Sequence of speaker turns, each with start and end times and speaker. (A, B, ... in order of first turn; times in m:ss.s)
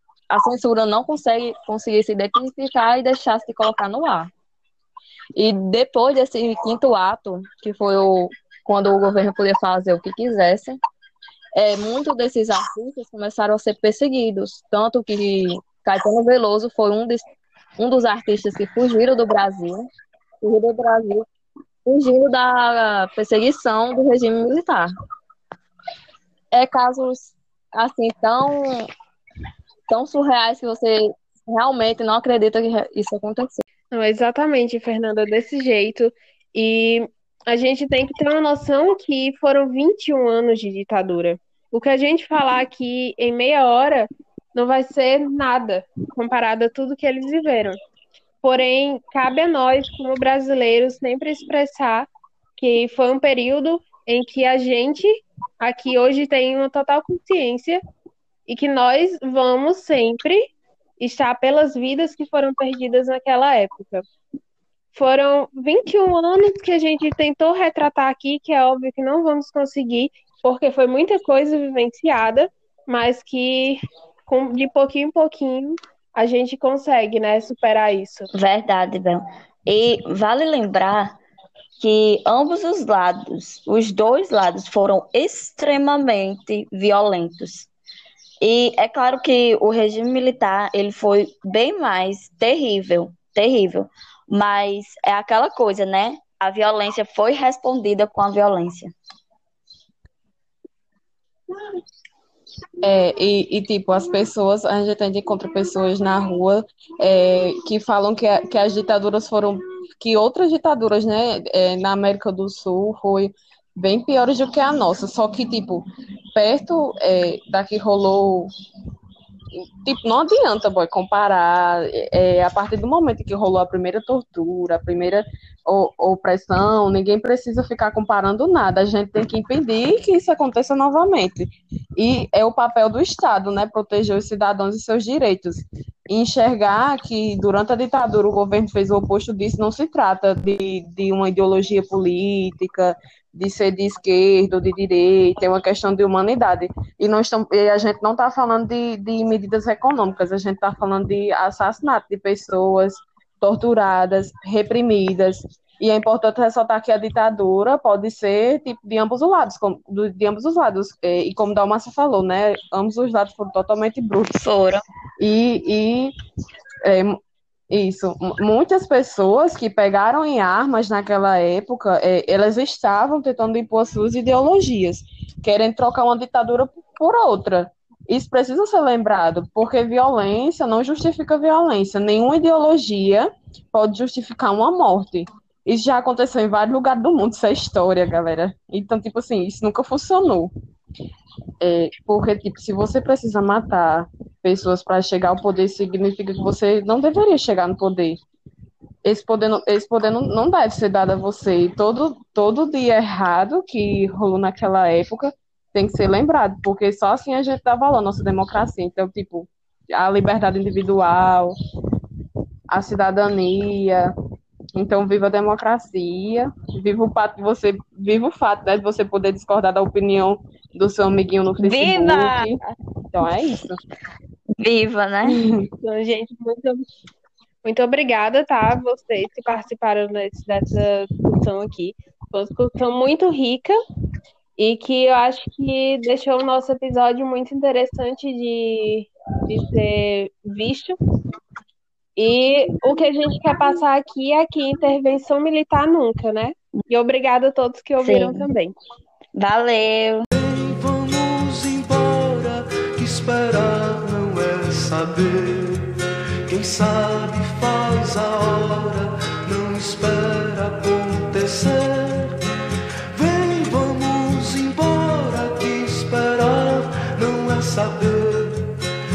0:00.3-0:04.3 A
0:05.4-0:10.8 A
0:11.6-0:17.2 A
0:17.8-0:19.8 A
0:20.4-0:21.2 A
0:21.8-0:24.9 A
0:26.5-0:28.9 A
0:29.9-0:33.6 A
0:33.9-0:47.8 B
0:48.4-0:57.8 B
0:58.5-1:04.0 B
1:04.9-1:18.3 B
1:18.3-1:21.2 C
1:21.8-1:27.7 C
1:28.4-1:38.9 C
1:42.8-1:58.5 D
1:59.6-2:44.4 D
2:44.4-2:44.8 C
2:45.2-2:46.1 D
2:46.8-2:47.2 D
2:47.7-3:10.5 D
3:11.6-3:18.2 D
3:19.0-3:31.6 D
3:32.7-3:34.2 D
3:34.8-3:42.6 D
3:41.6-3:42.6 C
3:43.1-3:43.8 D
3:44.6-3:45.4 C
3:45.2-3:45.7 D
3:45.8-3:46.8 B
3:47.6-3:53.8 B
3:54.6-4:01.0 B
4:02.2-4:08.8 B
4:08.0-4:08.5 C
4:09.4-4:10.2 C
4:10.3-4:22.4 E
4:23.1-4:28.8 E